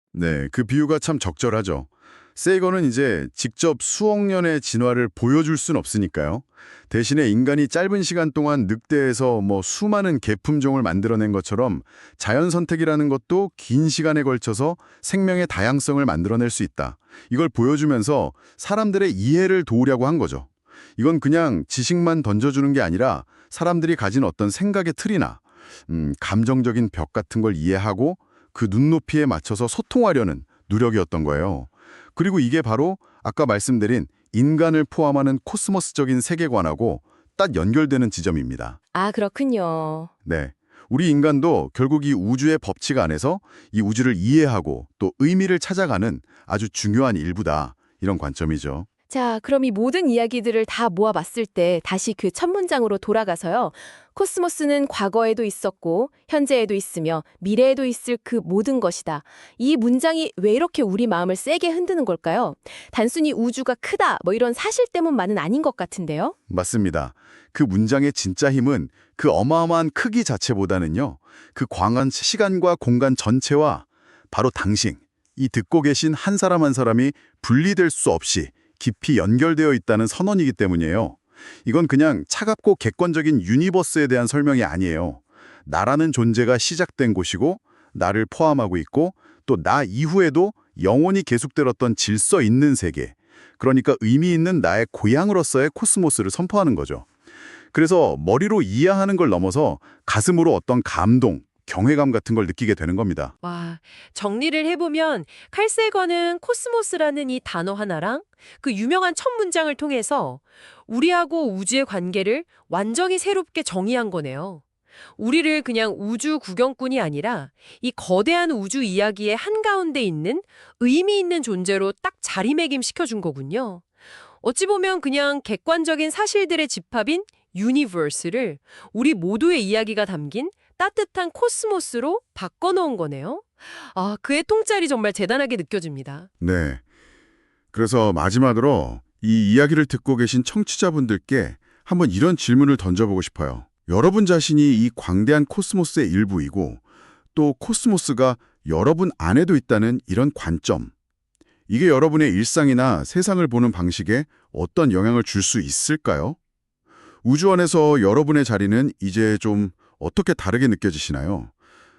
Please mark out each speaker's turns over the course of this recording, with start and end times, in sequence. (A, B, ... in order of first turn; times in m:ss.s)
0:00.1-0:38.8 A
0:38.9-0:40.1 B
0:40.2-0:48.9 A
0:49.1-1:06.3 B
1:06.5-1:37.1 A
1:37.7-1:43.3 A
1:43.4-1:54.6 C
1:55.2-2:03.8 C
2:04.4-2:16.3 C
2:16.4-2:16.8 A
2:17.7-2:26.8 A
2:27.3-2:30.9 A
2:31.7-2:36.4 A
2:37.2-2:41.5 A